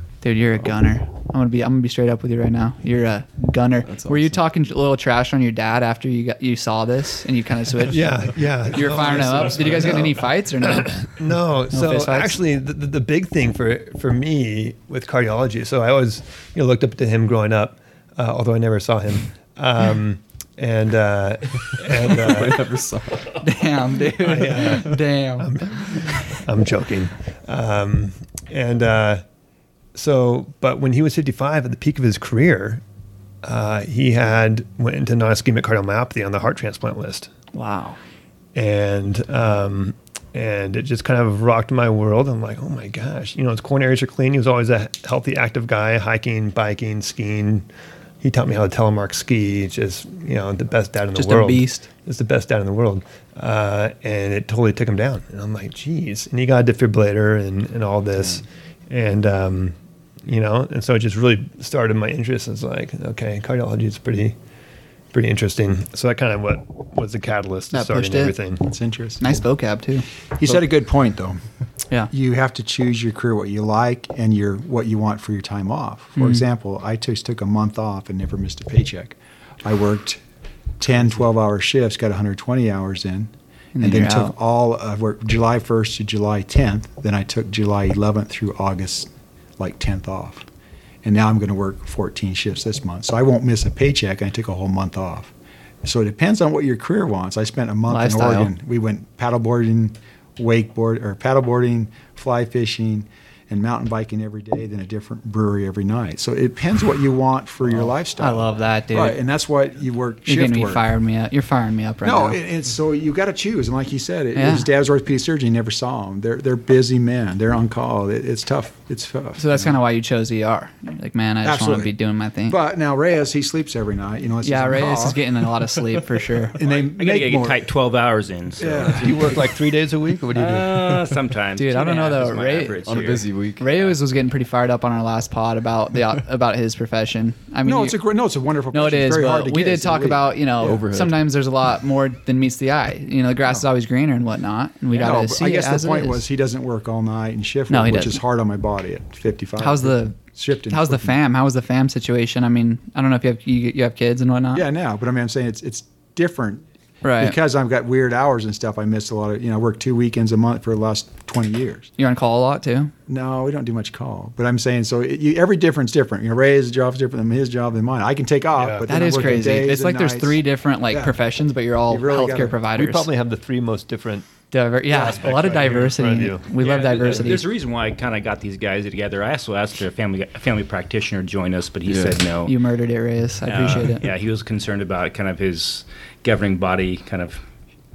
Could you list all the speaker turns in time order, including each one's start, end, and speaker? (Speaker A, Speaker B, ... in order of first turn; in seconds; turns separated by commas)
Speaker A: 0.2-11.1, Speaker B: 3.8-4.4, Speaker C: 7.9-22.8, Speaker A: 11.7-12.3, Speaker B: 21.8-23.4, Speaker A: 23.4-26.2, Speaker C: 24.1-29.2, Speaker C: 29.9-32.8, Speaker C: 33.4-37.3, Speaker A: 37.5-38.0, Speaker C: 38.5-47.6, Speaker C: 48.2-64.3, Speaker A: 51.1-51.9, Speaker B: 58.1-58.4, Speaker C: 65.1-68.6, Speaker A: 67.7-68.3, Speaker D: 68.6-69.4, Speaker A: 69.2-70.0, Speaker D: 70.3-71.4, Speaker D: 72.1-80.2, Speaker A: 76.2-76.4, Speaker D: 80.8-90.5, Speaker A: 83.7-84.3, Speaker D: 91.0-95.3, Speaker D: 95.8-110.8, Speaker A: 97.9-98.5, Speaker A: 108.2-109.2, Speaker A: 110.2-112.4, Speaker D: 112.0-119.8, Speaker A: 114.3-114.7, Speaker A: 119.4-122.6, Speaker D: 121.4-121.9, Speaker D: 122.5-125.2, Speaker A: 124.4-126.6, Speaker D: 126.6-127.6, Speaker E: 126.6-129.3, Speaker D: 128.6-129.2, Speaker C: 128.9-131.0, Speaker E: 130.3-133.2, Speaker A: 131.6-133.0, Speaker B: 132.8-133.8, Speaker A: 133.6-138.0, Speaker D: 137.6-140.4, Speaker A: 138.7-146.2, Speaker B: 140.6-141.2, Speaker D: 144.9-151.1, Speaker A: 147.7-148.2, Speaker A: 149.6-150.2, Speaker A: 150.7-154.7, Speaker D: 154.5-156.6, Speaker A: 157.0-157.3, Speaker D: 157.2-161.9, Speaker A: 162.0-162.9, Speaker D: 163.1-171.2, Speaker C: 168.6-169.2, Speaker A: 168.8-173.1, Speaker D: 171.9-172.6, Speaker C: 172.7-174.3, Speaker A: 174.5-177.4, Speaker C: 174.9-176.5, Speaker E: 176.6-182.5, Speaker B: 181.8-182.2, Speaker A: 182.4-184.0, Speaker E: 183.5-187.4